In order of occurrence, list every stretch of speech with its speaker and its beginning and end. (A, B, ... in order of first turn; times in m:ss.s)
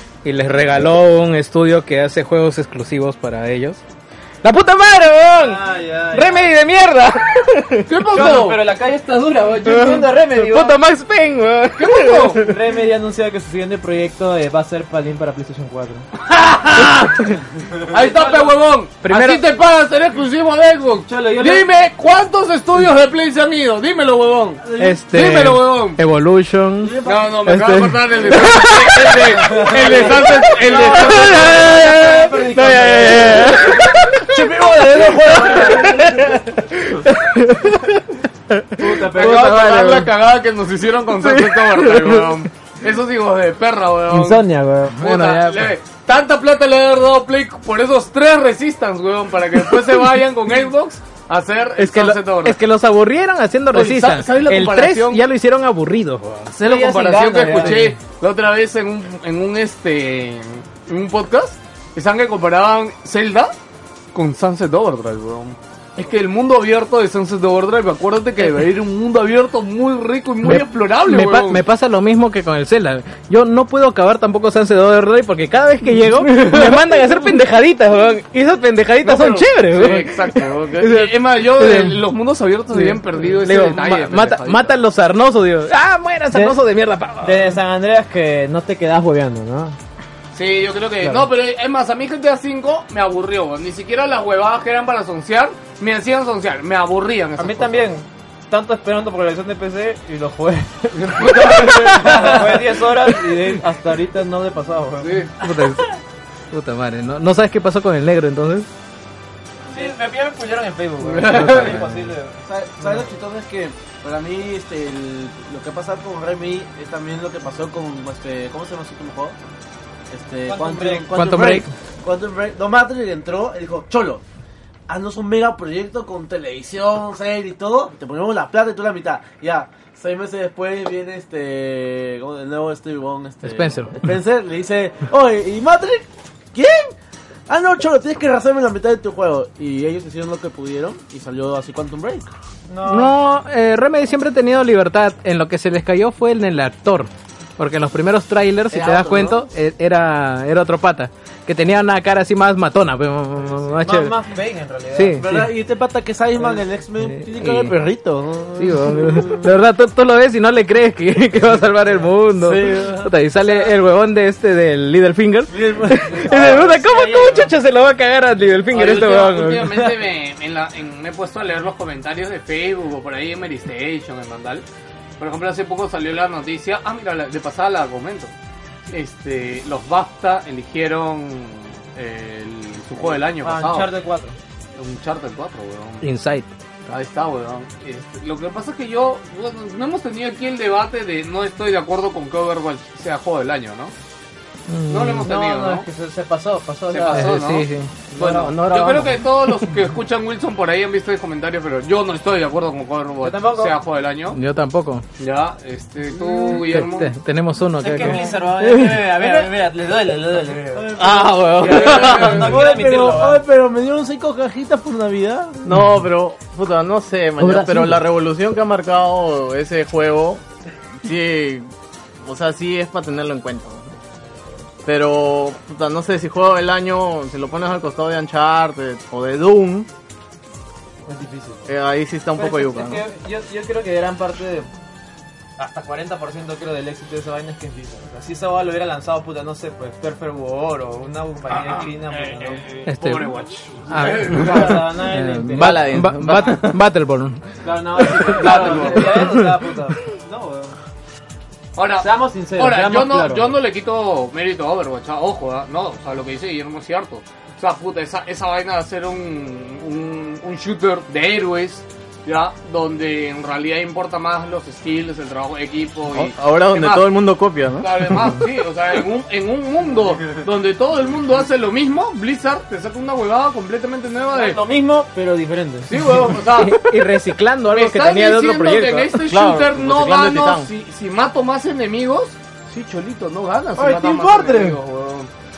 0:00.2-0:03.8 A
0:04.4-0:08.0 A
0:05.4-0:06.5 B
0:07.9-0:08.6 C
0:08.1-0:10.8 B
0:09.6-0:12.5 A
0:11.8-0:12.4 C
0:12.4-0:16.1 B
0:16.2-0:17.3 C
0:17.1-0:17.4 A
0:17.8-0:26.0 C
0:17.9-0:18.6 B
0:19.0-0:19.4 A
0:21.1-0:21.7 B
0:24.6-0:25.0 D
0:24.8-0:29.4 A
0:26.8-0:27.4 D
0:27.0-0:31.7 C
0:29.4-0:36.1 B
0:29.5-0:31.1 D
0:31.0-0:34.4 A
0:34.3-0:36.3 D
0:36.0-0:38.0 A
0:38.5-0:38.8 A
0:38.8-0:40.1 B
0:39.1-0:44.4 C
0:41.2-0:42.3 A
0:44.1-0:45.0 B
0:44.9-0:45.8 A
0:45.0-0:52.6 C
0:51.8-0:56.5 A
0:53.7-0:55.2 C
0:56.5-1:03.5 C
0:56.6-0:57.9 B
0:57.5-0:57.9 A
1:04.1-1:11.6 C
1:10.4-1:22.0 A
1:19.0-1:24.8 C
1:22.7-1:27.6 A
1:26.3-1:26.6 B
1:27.2-1:29.8 B
1:30.3-1:37.9 C
1:37.4-1:45.5 B
1:41.0-1:42.6 C
1:41.5-1:42.4 A
1:45.0-1:45.3 C
1:45.4-1:45.9 A
1:46.5-1:48.7 A
1:49.7-1:53.1 B
1:51.0-1:51.8 C
1:51.2-1:52.0 A
1:52.4-1:59.4 D
2:00.1-2:04.2 D
2:00.5-2:01.2 B
2:01.1-2:01.7 A
2:04.9-2:17.0 D
2:13.4-2:14.0 A
2:17.5-2:22.3 D
2:22.7-2:23.2 B
2:22.8-2:34.2 A
2:28.7-2:29.5 D
2:33.8-2:35.4 B
2:34.9-2:35.5 A
2:35.2-2:39.5 D
2:37.0-2:37.8 A
2:38.6-2:49.8 A
2:42.4-2:43.1 D
2:45.5-2:46.6 D
2:46.1-2:47.5 B
2:48.7-2:54.6 C
2:55.2-2:58.3 C
2:58.9-3:03.9 C
3:03.4-3:04.4 B
3:04.8-3:06.0 C
3:06.0-3:06.5 A
3:06.9-3:13.9 C
3:14.7-3:15.3 A
3:14.9-3:15.8 C
3:15.3-3:17.4 B
3:16.9-3:24.4 C
3:17.1-3:19.7 A
3:18.2-3:18.5 B
3:23.2-3:23.7 B
3:24.3-3:25.0 A
3:25.2-3:27.1 C
3:26.4-3:29.1 A
3:27.8-3:33.4 B
3:29.2-3:29.5 D
3:30.7-3:35.6 D
3:31.2-3:32.0 E
3:31.4-3:32.4 A
3:31.6-3:32.6 C
3:35.6-3:40.4 E
3:35.7-3:36.1 A
3:37.5-3:37.9 A
3:37.6-3:37.9 B
3:41.0-3:41.7 E
3:42.2-3:44.0 E
3:44.8-3:49.9 E
3:51.0-3:51.7 B
3:51.7-3:53.0 E
3:52.4-3:54.7 B
3:55.6-4:02.6 B
4:01.5-4:04.8 C
4:02.9-4:03.3 A
4:03.9-4:07.4 A
4:04.0-4:06.6 B
4:05.3-4:06.8 E
4:07.6-4:10.8 B
4:08.2-4:09.3 C
4:08.3-4:09.5 A
4:11.8-4:27.1 C
4:12.0-4:13.6 B
4:26.1-4:28.2 E
4:27.8-4:34.6 C
4:34.3-4:35.9 B
4:35.9-4:36.8 C
4:36.4-4:39.1 A
4:37.7-4:45.3 C
4:39.3-4:40.7 E
4:43.8-4:44.8 B